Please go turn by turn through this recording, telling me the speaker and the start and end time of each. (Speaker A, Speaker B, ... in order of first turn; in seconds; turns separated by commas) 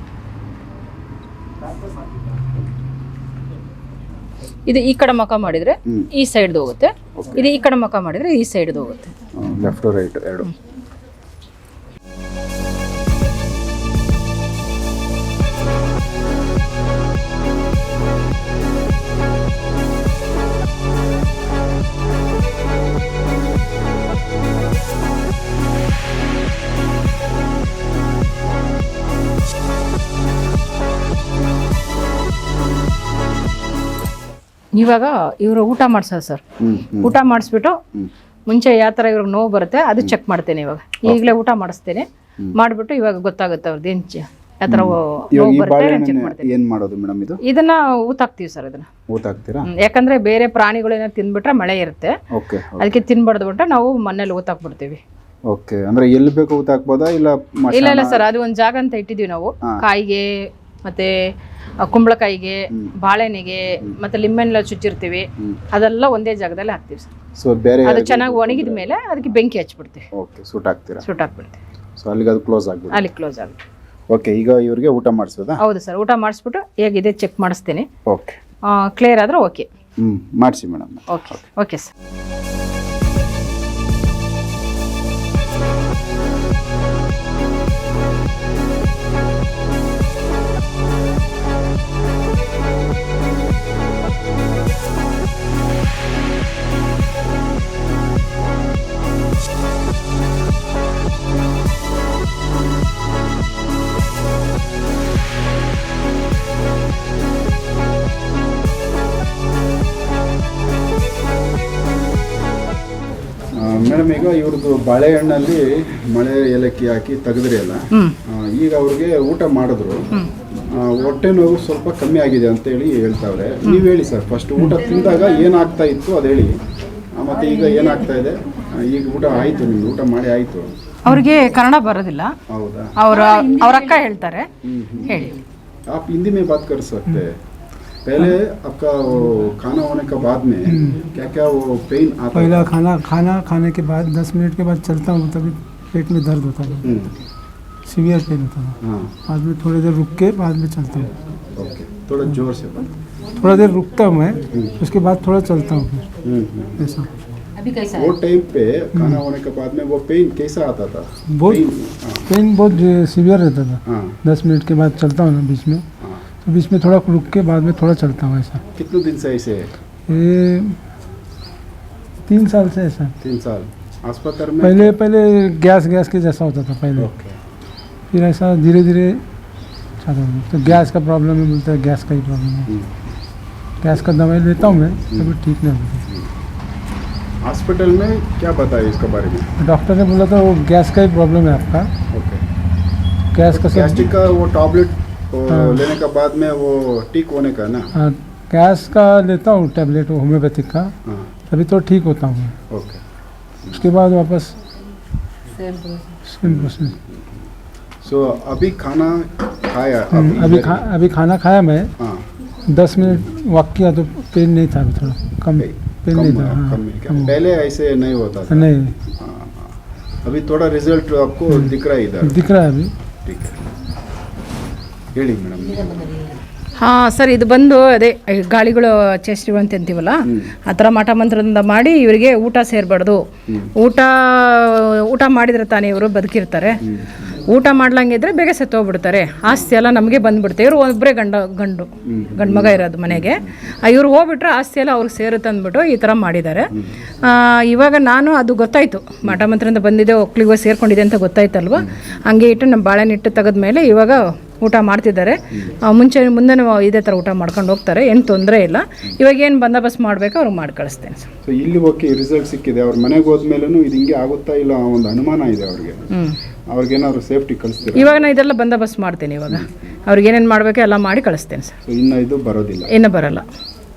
Speaker A: 4.7-9.1, Speaker B: 7.2-7.5, Speaker B: 9.3-10.5, Speaker A: 34.7-36.4, Speaker B: 36.6-37.1, Speaker A: 37.0-37.8, Speaker A: 38.5-46.5, Speaker B: 41.0-41.3, Speaker B: 44.7-47.4, Speaker A: 47.4-48.9, Speaker B: 49.1-49.7, Speaker A: 49.7-52.1, Speaker B: 52.3-53.0, Speaker A: 52.8-55.0, Speaker B: 55.5-58.2, Speaker A: 57.7-61.1, Speaker A: 61.8-67.1, Speaker B: 67.4-69.3, Speaker A: 67.8-70.1, Speaker B: 70.1-71.1, Speaker A: 71.0-71.6, Speaker B: 72.0-73.1, Speaker A: 72.9-73.6, Speaker B: 74.1-75.6, Speaker A: 75.6-77.9, Speaker B: 78.0-78.4, Speaker A: 78.7-79.7, Speaker B: 80.0-81.4, Speaker A: 81.1-81.9, Speaker B: 113.5-120.0, Speaker B: 120.7-126.5, Speaker B: 127.1-130.7, Speaker A: 131.0-132.3, Speaker B: 132.5-132.9, Speaker A: 133.0-134.5, Speaker B: 134.6-135.2, Speaker A: 135.0-135.4, Speaker B: 135.9-137.4, Speaker B: 138.0-142.7, Speaker C: 140.7-141.0, Speaker C: 142.3-146.9, Speaker B: 146.8-147.2, Speaker C: 147.9-151.1, Speaker B: 148.8-149.1, Speaker B: 151.5-152.9, Speaker C: 153.4-156.1, Speaker B: 156.2-156.9, Speaker C: 156.8-157.1, Speaker A: 157.6-158.1, Speaker B: 157.9-162.3, Speaker C: 158.9-159.2, Speaker C: 161.3-161.7, Speaker C: 162.2-165.8, Speaker B: 163.8-164.2, Speaker C: 166.4-168.6, Speaker B: 168.7-169.7, Speaker C: 170.1-170.8, Speaker C: 172.2-173.1, Speaker B: 173.2-175.0, Speaker C: 174.6-177.1, Speaker B: 177.0-177.4, Speaker C: 178.1-179.2, Speaker C: 180.0-182.7, Speaker B: 182.7-183.1, Speaker C: 183.8-186.1, Speaker B: 184.7-185.3, Speaker B: 187.4-189.5, Speaker C: 189.6-191.9, Speaker B: 192.1-192.4, Speaker C: 193.3-194.1, Speaker B: 193.4-197.9, Speaker C: 195.5-195.9, Speaker C: 197.9-200.9, Speaker C: 201.5-202.6, Speaker B: 202.7-203.0, Speaker C: 203.7-204.5, Speaker A: 205.6-206.1, Speaker C: 206.2-206.9, Speaker B: 206.4-207.3, Speaker B: 208.0-210.9, Speaker C: 210.1-211.9, Speaker B: 212.0-212.2, Speaker C: 212.7-217.3, Speaker B: 213.0-213.3, Speaker B: 215.6-222.4, Speaker C: 218.5-218.9, Speaker C: 222.2-222.9, Speaker B: 223.2-223.7, Speaker B: 225.1-226.2, Speaker A: 226.8-233.2, Speaker B: 230.2-230.5, Speaker A: 233.7-261.3, Speaker B: 236.8-237.3, Speaker B: 242.1-243.5, Speaker B: 251.8-252.2, Speaker B: 261.4-266.1, Speaker A: 266.1-266.4, Speaker B: 266.7-268.2, Speaker A: 267.9-271.8, Speaker B: 271.8-272.9, Speaker A: 272.9-273.4